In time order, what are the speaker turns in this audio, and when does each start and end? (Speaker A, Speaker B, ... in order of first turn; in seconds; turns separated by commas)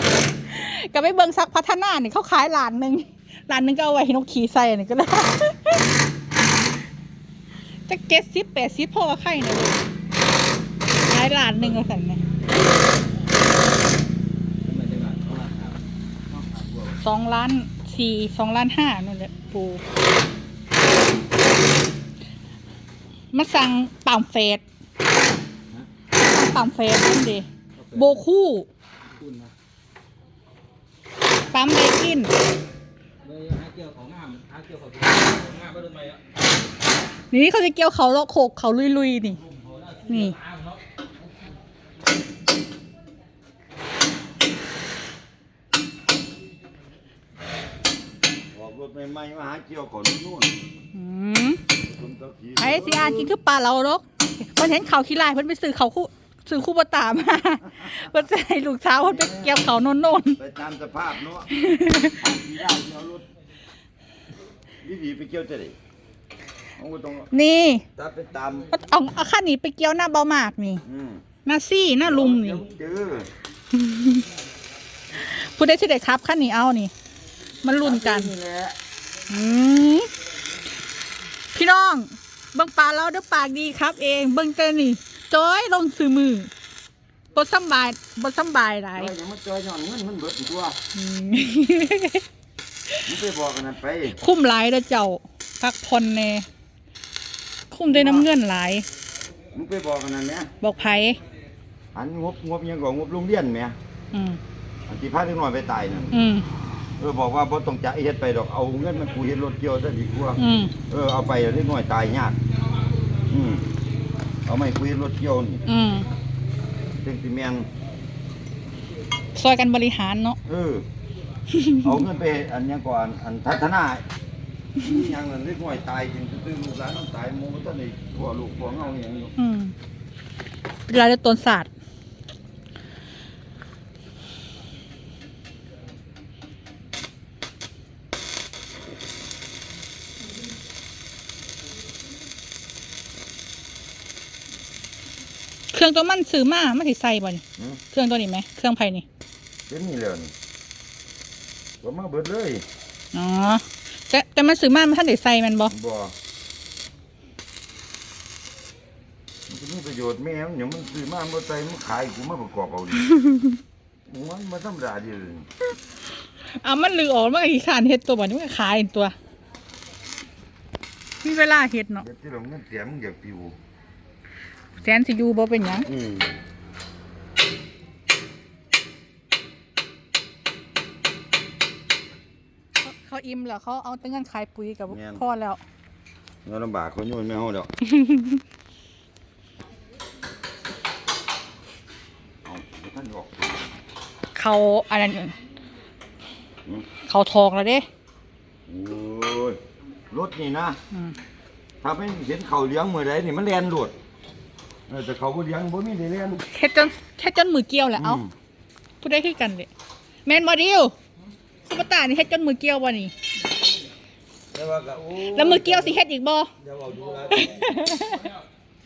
Speaker A: 0.5-5.8, Speaker A: 7.9-9.9, Speaker A: 11.1-12.2, Speaker B: 14.6-17.0, Speaker A: 17.0-19.8, Speaker A: 23.3-24.6, Speaker A: 26.1-28.7, Speaker B: 27.8-28.2, Speaker B: 29.1-29.5, Speaker A: 31.5-32.3, Speaker B: 33.2-36.2, Speaker A: 37.3-39.4, Speaker B: 39.4-40.8, Speaker A: 40.1-40.4, Speaker C: 48.5-50.5, Speaker A: 50.9-51.6, Speaker C: 51.8-53.3, Speaker A: 52.6-60.4, Speaker C: 59.0-59.7, Speaker C: 60.4-61.5, Speaker A: 61.5-62.2, Speaker C: 62.2-63.3, Speaker C: 64.8-65.8, Speaker C: 66.8-67.3, Speaker A: 67.3-67.9, Speaker C: 68.0-68.7, Speaker A: 68.7-70.8, Speaker C: 70.8-71.2, Speaker A: 71.5-72.7, Speaker C: 72.0-73.3, Speaker A: 73.7-74.3, Speaker A: 75.2-76.9, Speaker A: 77.6-78.3, Speaker C: 77.8-78.8, Speaker A: 79.3-80.1, Speaker A: 81.5-86.5, Speaker A: 87.3-89.1, Speaker C: 89.0-90.8, Speaker A: 91.0-92.2, Speaker C: 93.1-94.2, Speaker A: 94.2-96.5, Speaker A: 97.7-98.8, Speaker C: 97.9-98.3, Speaker C: 99.5-100.5, Speaker A: 100.6-101.2, Speaker C: 101.9-103.8, Speaker A: 104.1-104.4, Speaker C: 104.9-106.1, Speaker A: 106.1-106.5, Speaker C: 107.0-112.4, Speaker A: 110.4-110.8, Speaker C: 113.3-113.7, Speaker C: 114.5-115.6, Speaker A: 115.7-116.1, Speaker C: 117.0-117.7, Speaker A: 119.3-120.4, Speaker C: 120.5-120.9, Speaker A: 121.5-121.9, Speaker C: 121.8-124.0, Speaker C: 124.8-129.3, Speaker A: 129.4-129.7, Speaker A: 130.9-131.7, Speaker A: 145.7-149.1, Speaker C: 147.6-147.8, Speaker C: 149.7-150.3, Speaker C: 151.8-152.6, Speaker A: 153.1-155.7, Speaker C: 155.7-156.1, Speaker C: 159.5-163.1, Speaker A: 163.1-163.5, Speaker C: 164.1-165.5, Speaker A: 166.5-169.1, Speaker A: 171.2-172.1, Speaker C: 172.0-173.6, Speaker A: 174.8-175.9, Speaker C: 175.8-176.4, Speaker A: 182.8-185.6, Speaker C: 184.9-185.2, Speaker C: 186.4-187.7, Speaker A: 187.8-188.4, Speaker C: 192.4-193.8, Speaker A: 194.3-195.4, Speaker A: 197.1-197.9, Speaker C: 198.7-199.6, Speaker C: 200.1-200.8, Speaker C: 201.8-203.9, Speaker C: 204.9-206.4, Speaker A: 206.5-208.2, Speaker C: 208.0-208.3, Speaker A: 209.0-209.7, Speaker A: 210.2-210.9, Speaker A: 211.7-213.1, Speaker C: 214.5-216.0, Speaker A: 215.2-216.5, Speaker C: 216.6-217.8, Speaker A: 217.3-218.3